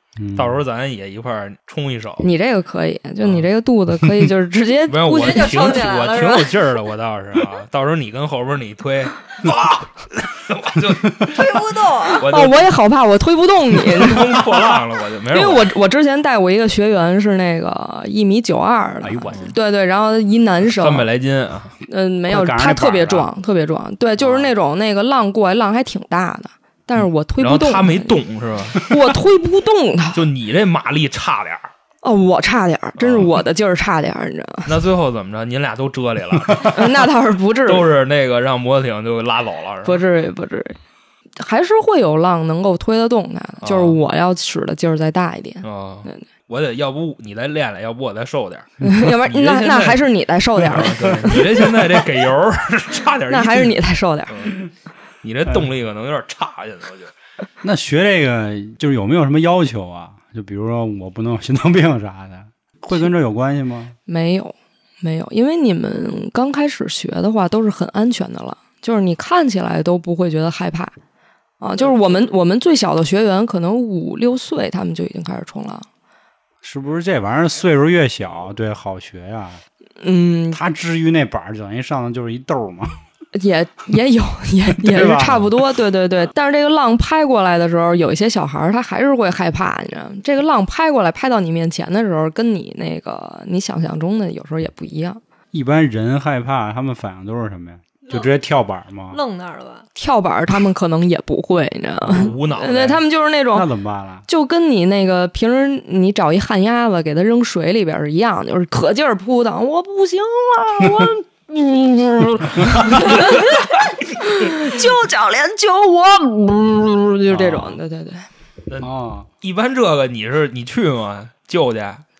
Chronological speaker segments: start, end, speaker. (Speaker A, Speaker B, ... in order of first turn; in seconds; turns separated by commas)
Speaker A: 0.2-0.6, Speaker B: 0.3-2.3, Speaker C: 2.2-5.7, Speaker B: 4.9-12.7, Speaker D: 5.1-6.6, Speaker D: 11.2-12.3, Speaker C: 12.2-14.5, Speaker B: 13.8-15.7, Speaker C: 15.3-21.1, Speaker A: 19.0-19.5, Speaker B: 20.6-21.7, Speaker C: 21.9-28.1, Speaker A: 22.3-23.3, Speaker A: 24.2-24.5, Speaker B: 27.4-28.8, Speaker C: 28.8-30.2, Speaker B: 30.1-31.7, Speaker C: 32.0-34.7, Speaker B: 33.0-33.3, Speaker B: 34.6-37.1, Speaker C: 36.6-37.9, Speaker B: 37.6-40.0, Speaker C: 39.8-40.8, Speaker C: 41.4-46.2, Speaker B: 43.6-44.0, Speaker B: 45.6-50.0, Speaker C: 48.8-52.0, Speaker B: 50.6-54.5, Speaker C: 53.3-54.5, Speaker B: 55.2-57.1, Speaker A: 57.6-64.0, Speaker C: 64.1-70.9, Speaker C: 71.6-75.9, Speaker A: 76.6-79.6, Speaker C: 80.0-80.6, Speaker A: 80.5-83.0, Speaker C: 83.3-95.2, Speaker A: 84.8-85.5, Speaker A: 95.5-99.2, Speaker D: 99.1-99.8, Speaker C: 100.0-103.7, Speaker A: 102.0-102.3, Speaker B: 102.1-103.0, Speaker A: 103.5-104.2, Speaker C: 104.3-113.5, Speaker C: 114.2-118.3, Speaker A: 117.3-117.8, Speaker B: 118.7-122.0, Speaker A: 118.8-119.3